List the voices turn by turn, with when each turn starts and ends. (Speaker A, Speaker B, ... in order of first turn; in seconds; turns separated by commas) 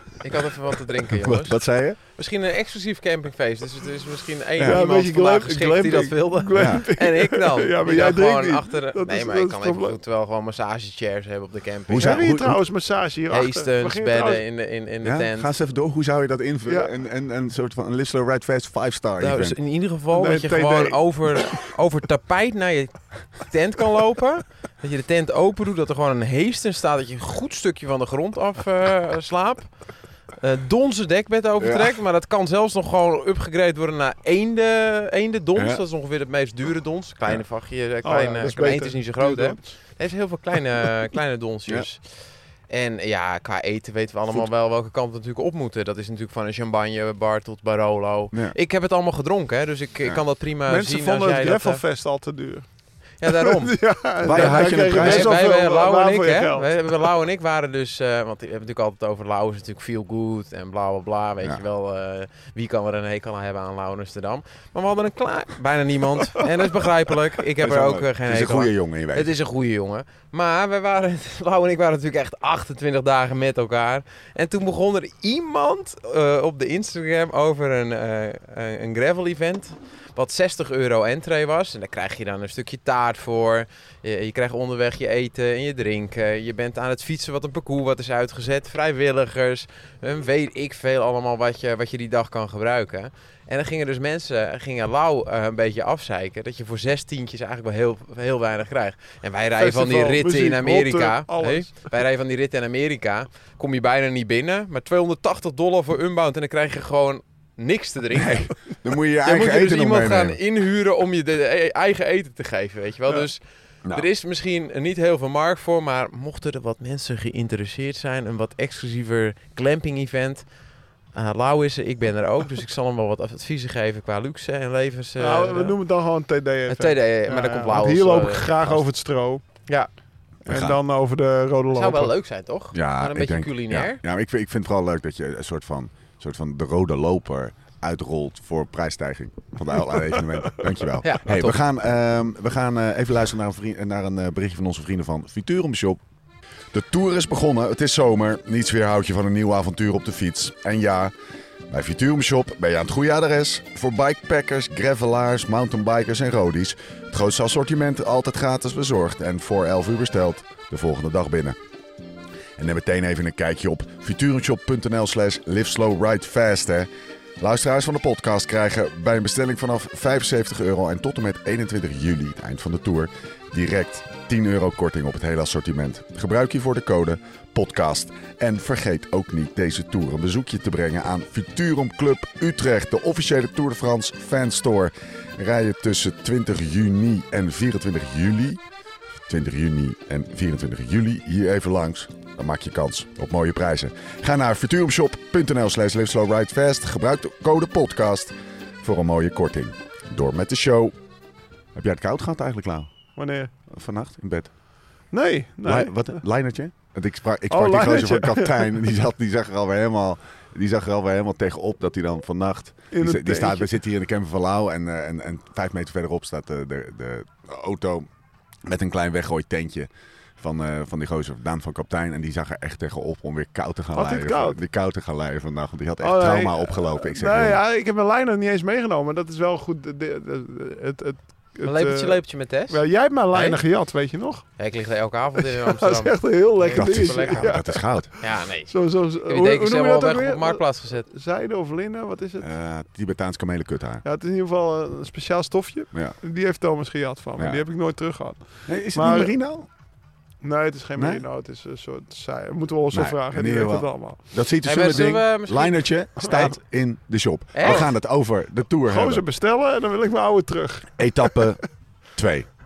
Speaker A: 0.2-12.2, Speaker B: 1.1-2.0, Speaker C: 4.6-10.0, Speaker B: 6.5-6.8, Speaker B: 11.9-12.6, Speaker C: 12.0-14.4, Speaker A: 13.3-15.5, Speaker B: 15.0-19.6, Speaker C: 16.7-16.9, Speaker A: 19.2-29.7, Speaker C: 20.1-21.0, Speaker A: 30.4-51.8, Speaker B: 31.6-32.0, Speaker C: 38.0-39.7, Speaker C: 50.7-52.6, Speaker C: 53.2-56.7, Speaker A: 53.2-108.5, Speaker B: 54.2-55.3, Speaker B: 67.6-69.3, Speaker C: 99.6-101.8, Speaker B: 108.1-110.4, Speaker A: 109.2-120.4, Speaker A: 121.1-125.8, Speaker C: 125.2-129.4, Speaker A: 126.7-128.9, Speaker C: 130.4-132.1, Speaker B: 130.4-130.8, Speaker A: 131.7-134.0, Speaker B: 132.7-146.0, Speaker A: 141.0-141.6, Speaker B: 146.7-151.1, Speaker B: 151.7-161.6, Speaker B: 162.6-188.6, Speaker B: 189.3-200.9, Speaker B: 201.7-202.9, Speaker C: 203.2-203.5, Speaker B: 203.7-204.5, Speaker C: 205.1-206.2, Speaker B: 205.6-218.1, Speaker C: 207.5-208.8, Speaker C: 212.9-213.7, Speaker B: 218.6-227.6, Speaker C: 223.9-224.6, Speaker C: 226.0-234.5, Speaker A: 231.6-232.8, Speaker A: 233.3-233.6, Speaker A: 234.6-237.6, Speaker C: 235.4-242.5, Speaker B: 236.7-238.1, Speaker A: 238.2-241.1, Speaker B: 242.4-244.0, Speaker C: 244.0-249.3, Speaker B: 247.4-247.6, Speaker B: 248.7-249.7, Speaker C: 250.4-254.2, Speaker B: 251.0-251.2, Speaker B: 252.9-259.2, Speaker A: 254.6-256.3, Speaker C: 256.2-256.5, Speaker A: 257.5-257.9, Speaker C: 258.9-261.4, Speaker B: 261.0-261.6, Speaker B: 262.1-262.5